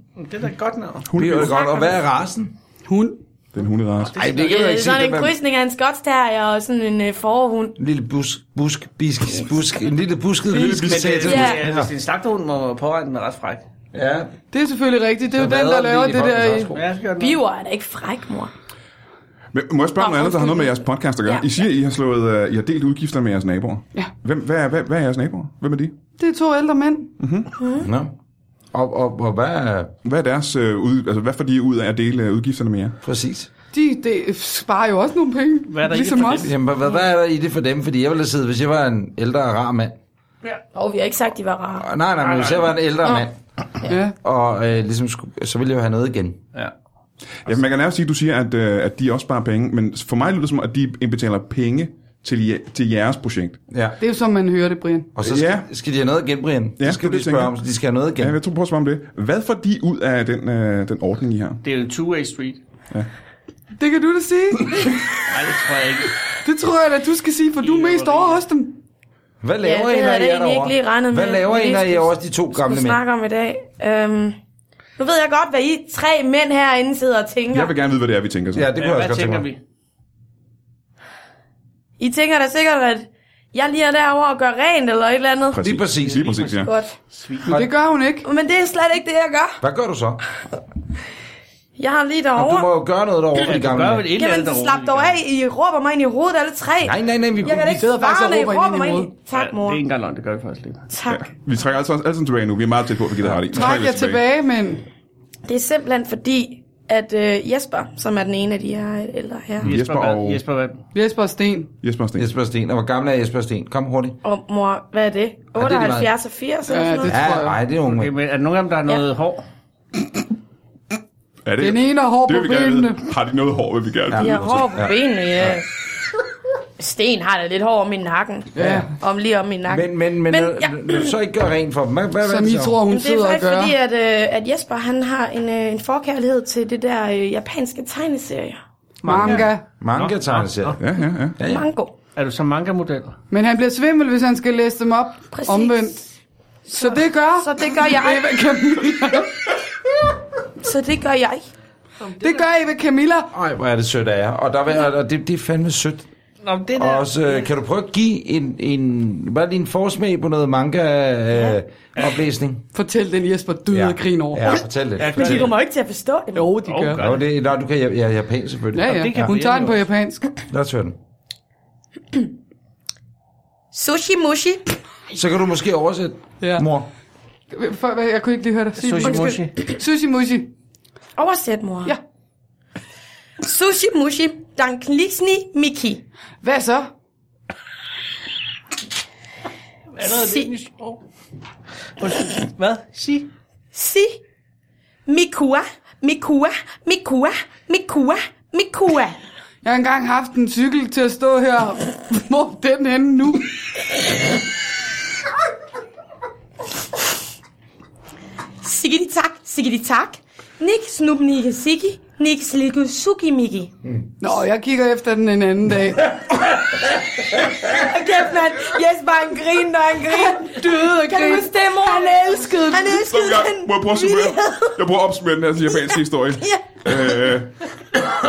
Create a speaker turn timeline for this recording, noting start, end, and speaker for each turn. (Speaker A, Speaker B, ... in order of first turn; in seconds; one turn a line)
Speaker A: 0.2-1.1
Speaker B: 1.1-1.6
Speaker C: 1.2-2.5
Speaker D: 1.4-1.9
Speaker E: 2.9-3.2
Speaker B: 3.5-4.2
Speaker A: 4.1-4.6
Speaker C: 4.2-5.3
Speaker D: 4.3-7.8
Speaker C: 7.8-11.9
Speaker B: 10.5-11.3
Speaker A: 10.7-13.7
Speaker D: 11.3-11.6
Speaker C: 13.9-14.3
Speaker E: 14.5-16.7
Speaker C: 15.3-16.8
Speaker A: 16.7-17.4
Speaker D: 17.2-18.5
Speaker B: 19.5-25.9
Speaker D: 20.0-21.5
Speaker E: 26.2-27.1
Speaker B: 27.2-27.5
Speaker D: 27.6-27.9
Speaker C: 27.8-28.1
Speaker C: 28.7-29.9
Speaker B: 30.0-33.0
Speaker C: 33.0-33.5
Speaker E: 33.7-36.5
Speaker A: 35.7-36.5
Speaker C: 36.4-40.0
Speaker D: 40.7-41.9
Speaker C: 41.8-43.4
Speaker A: 42.2-42.7
Speaker E: 43.9-44.1
Speaker C: 44.2-46.4
Speaker B: 47.5-53.6
Speaker C: 53.7-54.0
Speaker E: 54.0-55.1
Speaker C: 55.1-58.4
Speaker B: 55.2-55.7
Speaker B: 56.8-57.5
Speaker B: 58.2-61.6
Speaker A: 61.6-62.6
Speaker E: 63.8-64.9
Speaker A: 65.3-66.1
Speaker E: 66.4-68.8
Speaker A: 67.6-68.4
Speaker C: 69.4-73.0
Speaker D: 69.6-74.4
Speaker D: 75.0-77.7
Speaker B: 77.5-78.7
Speaker C: 78.5-79.5
Speaker A: 78.8-79.6
Speaker D: 82.0-85.7
Speaker B: 85.5-86.7
Speaker C: 85.6-86.5
Speaker A: 86.1-87.6
Speaker D: 86.6-86.9
Speaker E: 87.5-88.3
Speaker D: 88.2-89.6
Speaker C: 89.6-90.2
Speaker D: 91.8-92.7
Speaker C: 92.3-94.1
Speaker A: 93.4-95.2
Speaker D: 94.1-99.8
Speaker C: 96.8-97.8
Speaker E: 97.7-99.2
Speaker A: 99.3-100.9
Speaker D: 100.9-101.3
Speaker B: 101.1-104.2
Speaker E: 103.4-104.8
Speaker D: 105.5-109.7
Speaker B: 109.6-110.4
Speaker A: 109.6-110.8
Speaker E: 110.9-111.7
Speaker B: 111.8-112.3
Speaker C: 112.2-114.2
Speaker D: 114.2-117.1
Speaker C: 115.6-116.1
Speaker E: 116.7-117.6
Speaker C: 117.1-118.1
Speaker A: 117.8-119.4
Speaker B: 121.5-124.4
Speaker E: 121.6-123.1
Speaker C: 124.1-125.0
Speaker D: 124.2-125.7
Speaker D: 126.8-131.1
Speaker C: 128.6-128.9
Speaker E: 128.6-128.9
Speaker C: 129.7-132.8
Speaker E: 132.2-133.8
Speaker D: 132.9-138.6
Speaker A: 139.0-140.8
Speaker E: 139.1-139.7
Speaker C: 139.1-140.8
Speaker B: 140.8-141.4
Speaker C: 141.4-141.7
Speaker D: 141.5-141.9
Speaker A: 142.2-143.2
Speaker E: 143.3-146.0
Speaker D: 145.3-145.9
Speaker E: 146.7-149.5
Speaker D: 146.8-148.3
Speaker D: 150.6-151.5
Speaker E: 152.1-153.3
Speaker C: 153.3-156.1
Speaker A: 156.4-157.5
Speaker C: 156.8-162.6
Speaker E: 162.7-164.6
Speaker C: 163.7-165.5
Speaker D: 164.5-166.5
Speaker A: 165.0-165.5
Speaker E: 166.3-167.0
Speaker A: 166.6-167.2
Speaker C: 167.0-169.3
Speaker E: 168.7-170.4
Speaker A: 168.8-169.8
Speaker C: 170.5-171.0
Speaker D: 173.7-174.8
Speaker C: 175.1-176.9
Speaker E: 176.4-176.7
Speaker E: 177.5-180.5
Speaker A: 178.8-179.5
Speaker D: 181.2-182.0
Speaker D: 183.4-186.0
Speaker E: 186.4-186.9
Speaker A: 190.0-191.0
Speaker D: 190.0-190.5
Speaker A: 192.0-193.3
Speaker D: 193.7-194.2
Speaker D: 195.1-199.2
Speaker E: 199.6-203.5
Speaker D: 208.6-213.7
Speaker E: 214.2-216.3
Speaker D: 217.7-224.8
Speaker E: 220.1-222.9
Speaker B: 222.9-227.5
Speaker D: 225.8-227.3